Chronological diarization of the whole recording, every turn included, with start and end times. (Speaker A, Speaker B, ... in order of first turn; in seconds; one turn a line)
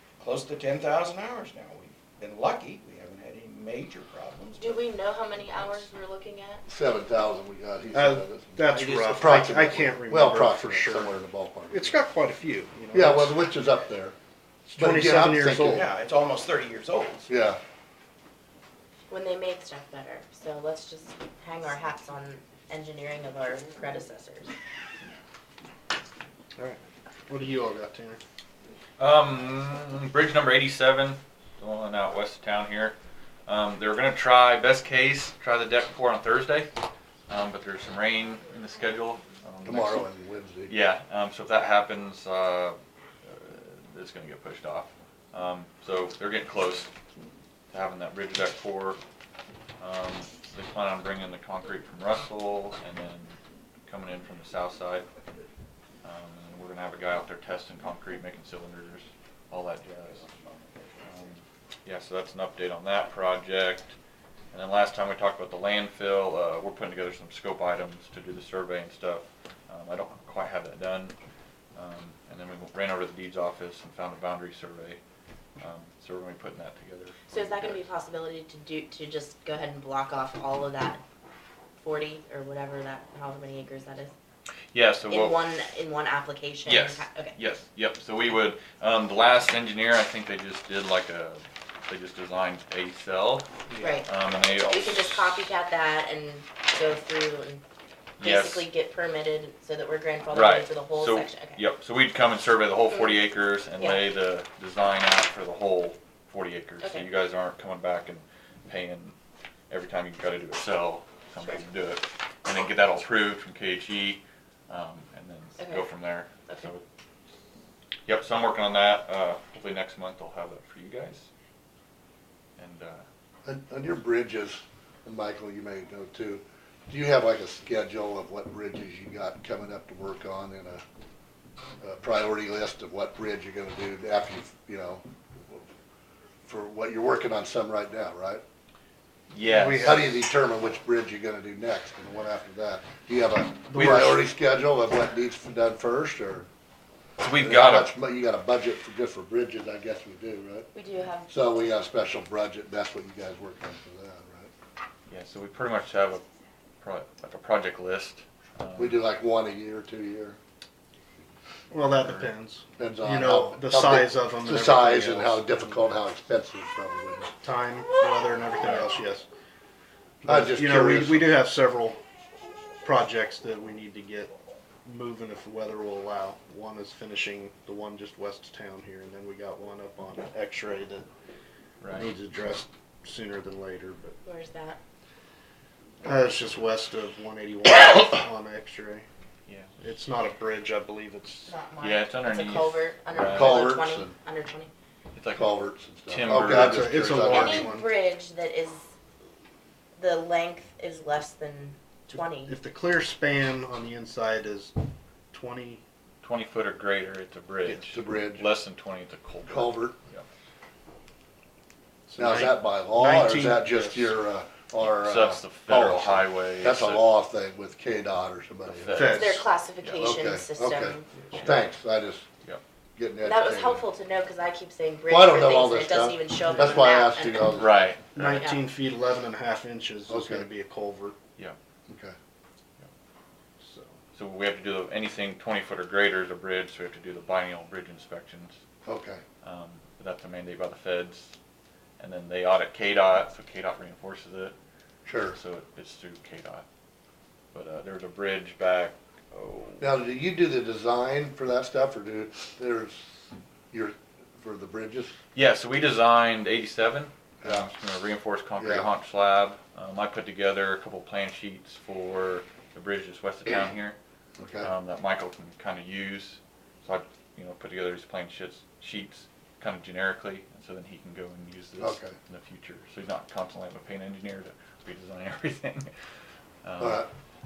Speaker A: 0.2-5.9
Speaker B: 4.6-6.6
Speaker C: 6.7-8.6
Speaker D: 7.9-13.3
Speaker A: 8.7-9.5
Speaker C: 9.1-11.9
Speaker C: 12.9-14.2
Speaker D: 14.7-15.9
Speaker C: 14.8-15.9
Speaker A: 15.7-17.3
Speaker C: 17.3-17.6
Speaker B: 19.1-24.5
Speaker D: 26.6-28.2
Speaker E: 29.0-33.0
Speaker E: 33.5-36.7
Speaker E: 37.3-40.0
Speaker C: 39.6-40.7
Speaker E: 40.7-46.9
Speaker E: 47.7-49.0
Speaker E: 49.8-55.1
Speaker E: 56.0-60.3
Speaker A: 60.1-61.0
Speaker E: 61.0-64.0
Speaker E: 64.5-71.2
Speaker E: 71.8-75.0
Speaker E: 75.6-77.8
Speaker B: 77.3-81.0
Speaker B: 81.8-84.1
Speaker E: 84.7-85.4
Speaker B: 85.1-87.4
Speaker E: 86.6-93.5
Speaker B: 93.8-97.6
Speaker E: 94.0-95.4
Speaker E: 98.2-98.7
Speaker B: 98.2-101.6
Speaker E: 100.3-109.2
Speaker B: 103.8-104.0
Speaker B: 106.8-107.1
Speaker E: 109.7-116.8
Speaker B: 115.6-115.9
Speaker E: 118.0-121.3
Speaker E: 122.6-123.0
Speaker C: 123.5-130.8
Speaker C: 131.8-135.6
Speaker C: 136.4-138.4
Speaker E: 139.3-140.1
Speaker D: 139.4-140.1
Speaker C: 139.8-146.5
Speaker D: 143.7-144.2
Speaker E: 143.8-144.1
Speaker E: 147.2-147.9
Speaker C: 147.4-150.7
Speaker B: 150.7-151.3
Speaker C: 151.3-154.5
Speaker E: 155.1-156.2
Speaker E: 156.8-159.0
Speaker C: 158.8-160.4
Speaker D: 161.7-165.7
Speaker E: 162.0-162.3
Speaker C: 162.8-167.3
Speaker D: 167.4-169.3
Speaker C: 170.2-171.3
Speaker D: 170.2-172.0
Speaker D: 172.8-174.3
Speaker D: 174.8-181.1
Speaker E: 181.8-182.1
Speaker D: 181.9-184.2
Speaker B: 184.2-184.8
Speaker D: 186.0-189.1
Speaker D: 189.8-191.6
Speaker B: 191.4-194.7
Speaker E: 191.8-193.7
Speaker C: 193.3-194.1
Speaker E: 195.1-195.5
Speaker C: 195.3-197.7
Speaker E: 196.1-197.0
Speaker D: 196.2-197.9
Speaker B: 197.2-198.9
Speaker B: 200.0-202.5
Speaker D: 202.4-204.8
Speaker D: 205.3-205.8
Speaker E: 206.2-210.2
Speaker D: 207.7-207.9
Speaker C: 207.9-208.5
Speaker C: 209.4-209.9
Speaker D: 212.1-214.1
Speaker C: 212.2-219.1
Speaker E: 214.8-217.1
Speaker E: 218.7-220.1
Speaker D: 218.9-219.4
Speaker B: 219.1-221.1
Speaker C: 220.0-222.2
Speaker C: 222.9-223.8
Speaker B: 223.2-227.7
Speaker C: 225.1-227.9
Speaker D: 226.5-226.8
Speaker E: 227.5-228.4
Speaker D: 228.1-231.2
Speaker B: 228.2-228.6
Speaker C: 230.1-230.4
Speaker C: 231.9-232.1
Speaker D: 233.6-234.0
Speaker E: 234.1-238.6
Speaker C: 238.8-239.2
Speaker E: 239.4-241.3
Speaker E: 242.0-244.5
Speaker C: 245.0-245.4
Speaker E: 245.3-246.6
Speaker E: 247.5-249.9
Speaker C: 249.8-253.0
Speaker C: 253.7-255.2
Speaker E: 255.3-264.0
Speaker C: 257.4-257.7
Speaker C: 258.6-258.9
Speaker C: 264.4-264.7
Speaker E: 264.6-275.9
Speaker C: 271.8-272.1
Speaker E: 276.6-277.0
Speaker C: 276.8-277.1